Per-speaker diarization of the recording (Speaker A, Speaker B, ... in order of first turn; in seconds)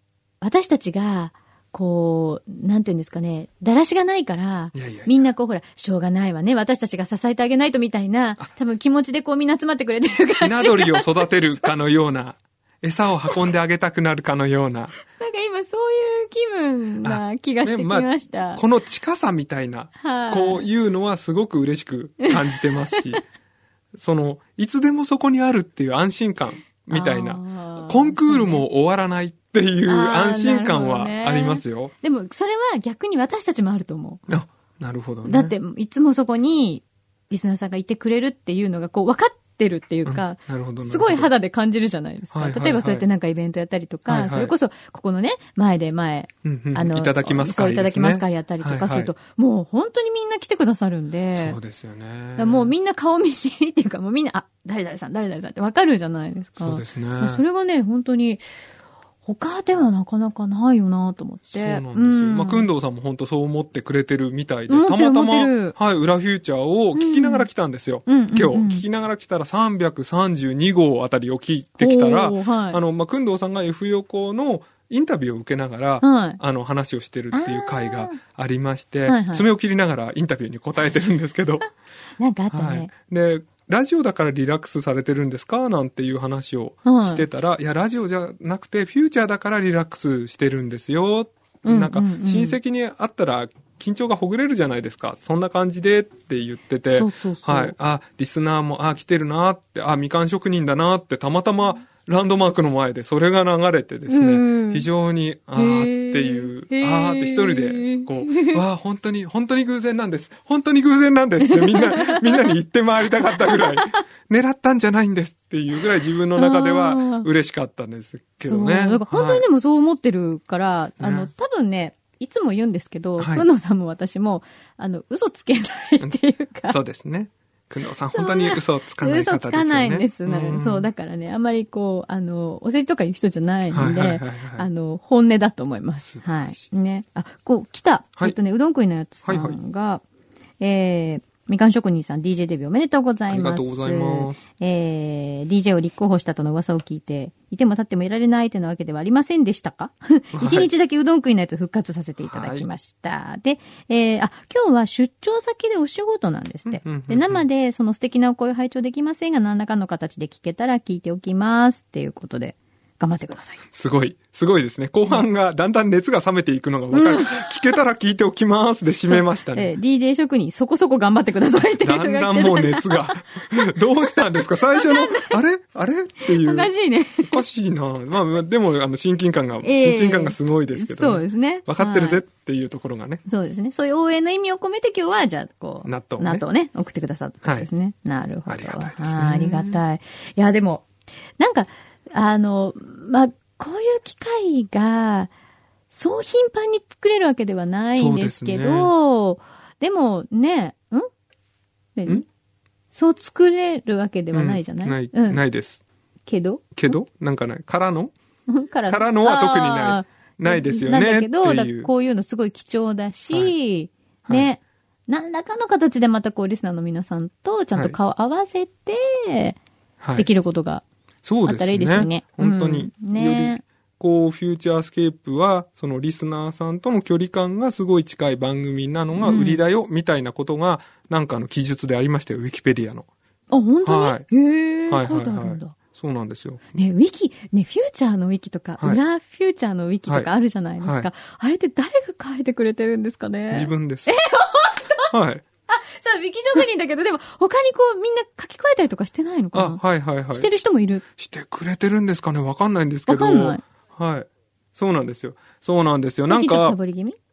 Speaker A: 0.4-11.2, 15.1-18.6, 20.0-20.6, 26.9-28.6, 29.9-34.2, 35.2-51.6, 52.4-58.4, 59.2-62.7, 64.7-65.8, 67.0-67.5, 68.0-68.8, 71.8-72.8, 76.0-76.4, 77.3-78.2, 79.1-79.4, 82.2-82.9, 86.8-87.2, 91.6-92.6, 96.9-97.7, 104.1-104.8, 105.5-108.6, 111.5-112.5, 113.2-113.9, 116.3-117.3, 118.4-126.8, 128.1-140.0, 140.6-163.6, 166.9-167.4, 169.1-173.4, 174.7-175.4, 176.4-177.4, 179.6-182.2, 183.2-190.8, 191.4-195.3, 195.9-201.1, 201.9-202.2, 202.9-205.4, 206.3-206.9, 208.5-219.6, 220.2-220.8, 221.4-223.6, 229.2-229.6, 233.5-235.8, 236.7-245.1, 245.7-249.8, 250.3-251.0, 253.1-253.6, 256.3-257.2
Speaker B: 4.7-5.1, 10.4-14.9, 17.0-23.2, 24.0-31.9, 34.3-35.5, 40.0-41.3, 42.3-43.0, 44.1-44.5, 46.4-49.1, 51.3-52.7, 56.6-57.4, 61.5-81.7, 82.5-119.4, 121.0-121.3, 123.2-123.4, 126.7-130.9, 133.7-134.7, 136.0-136.6, 139.2-139.6, 143.3-144.4, 150.3-150.7, 152.3-152.7, 156.7-157.4, 163.7-169.7, 171.8-176.7, 177.2-183.2, 185.8-186.4, 187.4-187.7, 188.5-189.8, 197.9-198.9, 204.3-205.8, 206.7-208.1, 208.9-211.9, 220.0-220.3, 221.2-233.1, 233.8-234.3, 234.9-236.6, 240.8-241.1, 243.5-244.2, 245.1-245.4, 249.5-250.5, 251.1-256.8